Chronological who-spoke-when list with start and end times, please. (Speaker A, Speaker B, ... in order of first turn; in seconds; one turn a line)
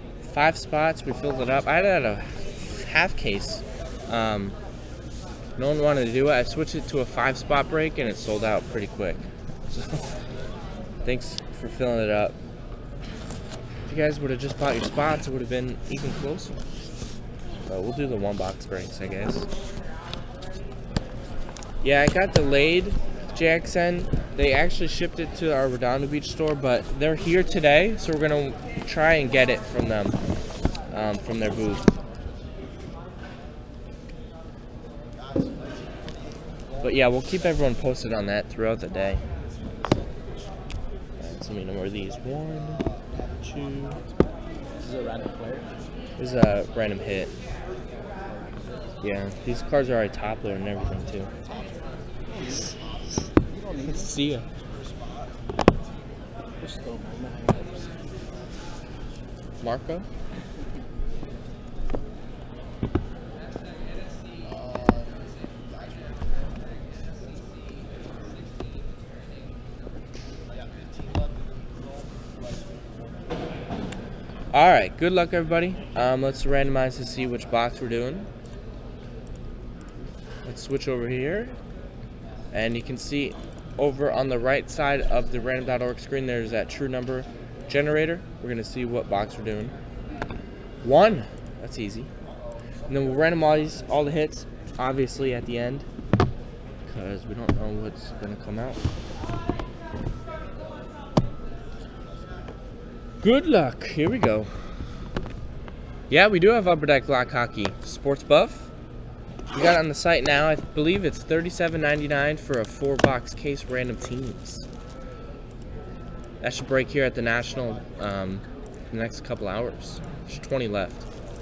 Speaker A: 0.2-4.6
Speaker A: 5.6-10.1
Speaker A: 11.0-12.3
Speaker A: 13.9-16.6
Speaker A: 17.7-19.5
Speaker A: 21.8-30.2
Speaker A: 30.9-31.9
Speaker A: 36.8-39.2
Speaker A: 41.2-42.8
Speaker A: 43.4-44.0
Speaker B: 44.8-45.7
Speaker A: 46.2-47.3
Speaker B: 48.2-48.7
Speaker A: 49.0-51.3
Speaker B: 52.3-52.7
Speaker B: 53.5-54.2
Speaker A: 53.9-54.5
Speaker B: 56.6-58.0
Speaker A: 59.6-60.1
Speaker A: 74.5-78.3
Speaker A: 80.5-81.5
Speaker A: 82.5-89.7
Speaker A: 90.8-92.1
Speaker A: 92.9-95.9
Speaker A: 96.9-98.8
Speaker A: 103.2-104.5
Speaker A: 106.1-108.7
Speaker A: 109.5-114.7
Speaker A: 116.4-121.1